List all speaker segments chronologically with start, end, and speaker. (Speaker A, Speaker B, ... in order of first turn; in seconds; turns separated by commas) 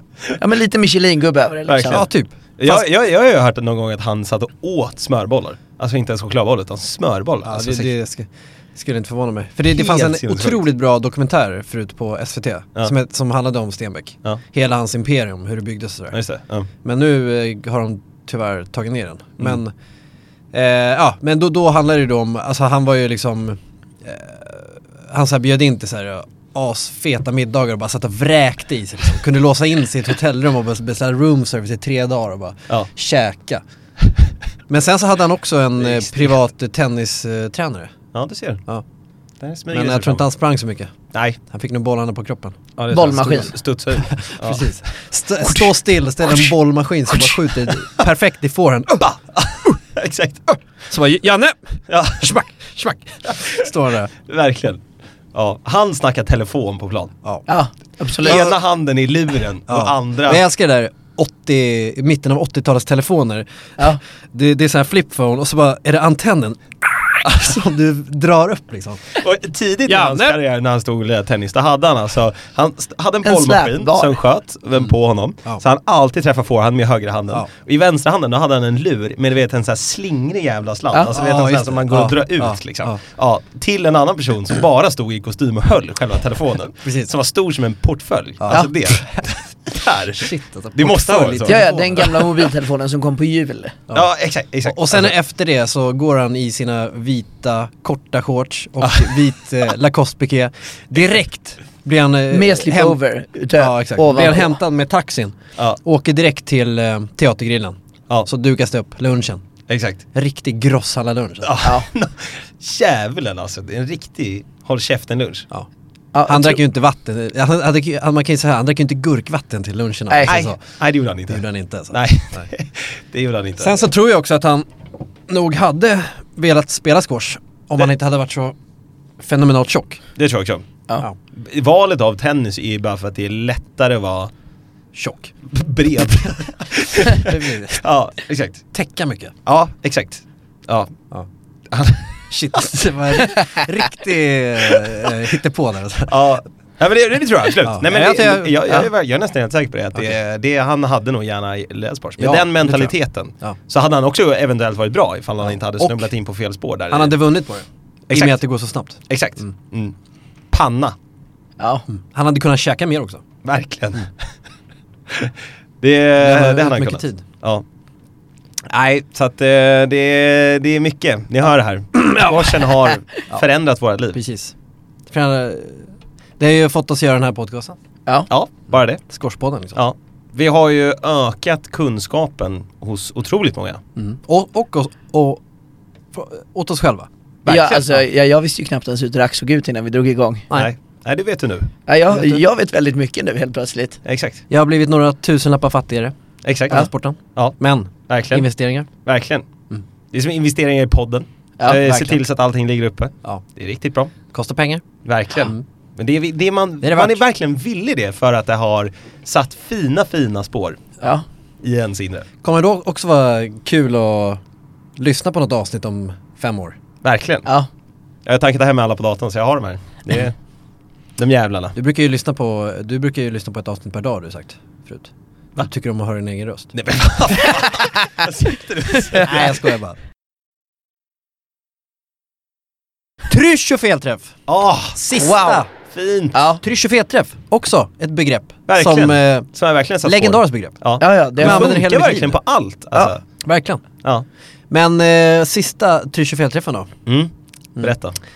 Speaker A: 0.4-2.1, Speaker B: 1.7-2.0, Speaker C: 1.8-2.8, Speaker B: 2.6-7.9, Speaker C: 7.4-16.2, Speaker B: 9.7-10.7, Speaker B: 16.1-16.7, Speaker C: 16.8-19.7, Speaker C: 20.5-33.6, Speaker C: 34.7-37.9, Speaker B: 35.8-36.3, Speaker B: 38.1-38.6, Speaker B: 39.4-40.2, Speaker C: 39.7-40.9, Speaker B: 41.1-41.4, Speaker C: 41.5-43.4, Speaker B: 42.8-44.7, Speaker A: 42.9-43.5, Speaker C: 44.0-49.1, Speaker B: 45.4-45.7, Speaker B: 46.2-46.5, Speaker B: 47.1-48.0, Speaker B: 49.0-50.4, Speaker C: 50.9-54.1, Speaker B: 51.9-52.3, Speaker B: 53.2-54.8, Speaker B: 55.3-57.1, Speaker A: 57.5-58.5, Speaker B: 58.2-60.4, Speaker C: 59.7-69.2, Speaker B: 69.2-92.3, Speaker C: 69.9-70.4, Speaker A: 73.2-74.2, Speaker C: 81.1-83.0, Speaker C: 86.8-87.1, Speaker C: 88.4-89.3, Speaker C: 90.0-92.2, Speaker A: 91.5-93.8, Speaker B: 93.9-95.1, Speaker C: 94.6-103.0, Speaker B: 98.8-99.2, Speaker A: 102.3-104.6, Speaker C: 103.5-109.4, Speaker B: 109.7-110.0, Speaker C: 110.1-111.6, Speaker B: 111.4-115.5, Speaker A: 116.1-116.6, Speaker C: 116.2-120.6, Speaker A: 120.1-120.4, Speaker B: 120.3-123.8, Speaker C: 121.3-122.5, Speaker C: 123.6-124.7, Speaker C: 125.3-128.5, Speaker C: 129.2-130.0, Speaker B: 130.2-130.7, Speaker B: 131.3-134.3, Speaker C: 134.9-135.3, Speaker B: 135.5-138.6, Speaker C: 137.0-137.8, Speaker C: 138.7-139.3, Speaker B: 139.4-140.9, Speaker B: 141.7-142.6, Speaker C: 142.3-146.1, Speaker B: 146.1-157.2, Speaker C: 147.6-148.8, Speaker C: 152.2-153.6, Speaker C: 155.8-156.1, Speaker C: 156.9-159.5, Speaker B: 158.1-158.4, Speaker B: 159.1-159.9, Speaker B: 160.5-160.9, Speaker A: 161.6-161.8, Speaker C: 161.9-163.2, Speaker B: 163.4-164.1, Speaker B: 165.1-167.6, Speaker C: 166.2-167.2, Speaker B: 168.7-174.2, Speaker C: 172.0-172.3, Speaker C: 174.1-174.5, Speaker C: 175.1-177.8, Speaker B: 178.3-179.0, Speaker C: 179.1-179.8, Speaker B: 179.7-183.8, Speaker C: 184.0-185.4, Speaker C: 186.1-187.1, Speaker B: 187.4-188.0, Speaker A: 187.4-190.5, Speaker B: 190.5-191.7, Speaker A: 191.9-194.0, Speaker B: 194.0-194.4, Speaker C: 194.5-196.1, Speaker B: 196.4-197.5, Speaker C: 196.7-198.9, Speaker B: 198.1-198.5, Speaker B: 199.0-199.5, Speaker B: 200.1-204.1, Speaker C: 201.7-202.2, Speaker C: 204.3-204.8, Speaker B: 205.0-210.8, Speaker C: 206.8-207.2, Speaker B: 211.6-212.2, Speaker C: 212.4-214.4, Speaker C: 215.0-216.7, Speaker B: 217.0-217.5, Speaker B: 218.2-220.3, Speaker B: 221.2-221.7, Speaker C: 221.7-226.7, Speaker B: 226.7-229.5, Speaker C: 229.2-230.0, Speaker C: 233.3-234.3, Speaker B: 234.5-236.4, Speaker A: 235.2-235.6, Speaker C: 235.3-235.7, Speaker A: 236.3-236.6, Speaker C: 236.6-239.5, Speaker B: 238.7-243.2, Speaker C: 240.0-240.8, Speaker A: 241.0-241.8, Speaker C: 241.4-242.4, Speaker C: 243.4-243.8, Speaker C: 244.7-246.9, Speaker B: 247.1-248.2